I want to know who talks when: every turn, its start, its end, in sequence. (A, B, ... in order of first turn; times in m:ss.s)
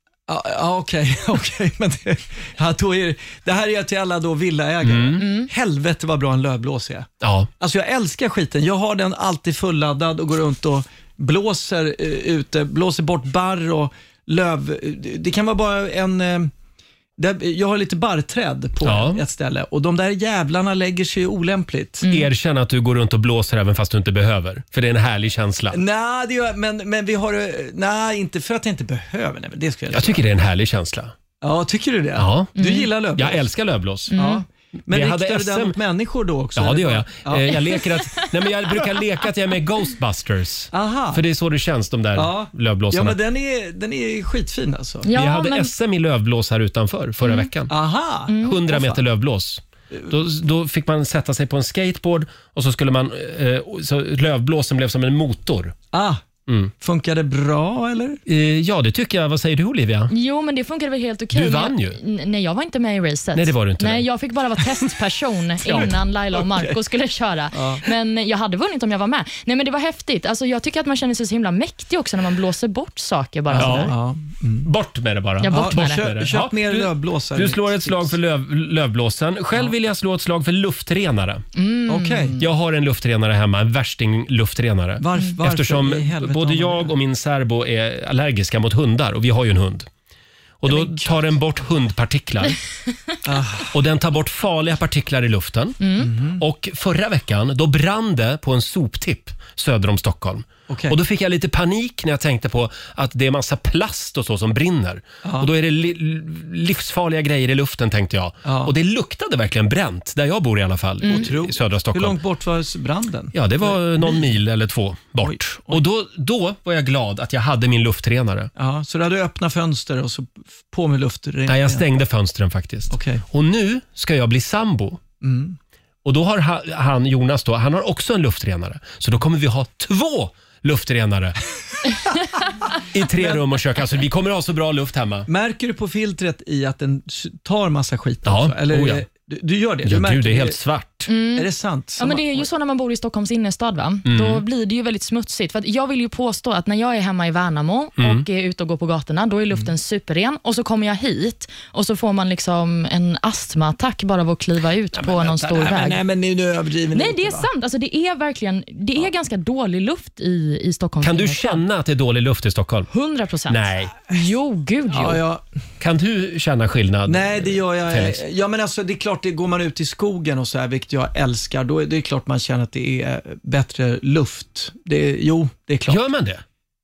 0:00.3-0:07.1 A
0:04.8-0:05.2 B
0:05.2-0:05.5 C
0:07.2-0:07.5 B
0:07.6-0:16.5 A
0:17.2-0:22.1 A
0:18.8-0:19.2 B
0:22.1-0:25.8 B
0:25.7-0:30.2 A
0:29.9-0:31.2 B
0:31.4-0:33.4 A
0:32.2-0:32.6 B
0:32.6-0:32.9 C
0:33.2-0:34.1 B
0:34.1-0:34.4 C
0:34.1-0:37.6 A
0:34.9-0:35.8 B
0:36.6-0:43.2 B
0:40.7-0:41.2 A
0:42.2-0:45.1 A
0:45.1-0:45.7 C
0:45.2-0:47.7 B
0:47.2-0:47.5 C
0:47.7-0:49.0 A
0:48.3-0:48.6 C
0:48.4-0:55.8 B
0:55.9-0:56.2 A
0:56.8-0:58.2 A
0:58.3-1:00.1 B
1:00.1-1:14.0 C
1:01.3-1:02.0 B
1:03.4-1:04.1 B
1:05.7-1:06.7 A
1:07.5-1:07.9 A
1:13.5-1:14.7 A
1:13.6-1:14.0 B
1:14.6-1:21.4 B
1:15.4-1:16.1 C
1:15.5-1:18.1 A
1:21.6-1:22.5 C
1:21.9-1:22.4 A
1:22.4-1:29.9 B
1:25.0-1:26.9 A
1:30.6-1:32.6 B
1:30.7-1:31.4 A
1:33.2-1:33.7 A
1:33.7-1:35.8 B
1:35.8-1:36.1 C
1:36.0-1:36.4 A
1:36.4-1:52.2 B
1:40.7-1:41.0 A
1:45.2-1:45.5 A
1:48.4-1:48.7 A
1:51.0-1:51.3 C
1:51.0-1:54.3 A
1:53.3-1:58.5 B
1:55.2-1:55.8 A
1:58.6-2:01.9 A
2:01.5-2:05.0 B
2:02.9-2:03.2 A
2:05.2-2:05.6 A
2:06.0-2:11.4 B
2:12.9-2:15.3 B
2:13.2-2:13.4 A
2:15.3-2:20.6 A
2:18.2-2:19.1 B
2:19.8-2:21.1 B
2:21.1-2:36.0 C
2:21.3-2:22.5 A
2:24.1-2:24.4 B
2:28.0-2:28.2 B
2:35.0-2:37.5 A
2:36.9-2:41.6 C
2:41.0-2:42.9 B
2:42.9-2:45.2 C
2:43.5-2:43.9 B
2:44.9-2:45.4 A
2:45.8-2:48.2 B
2:47.1-2:56.0 A
2:55.9-2:56.4 B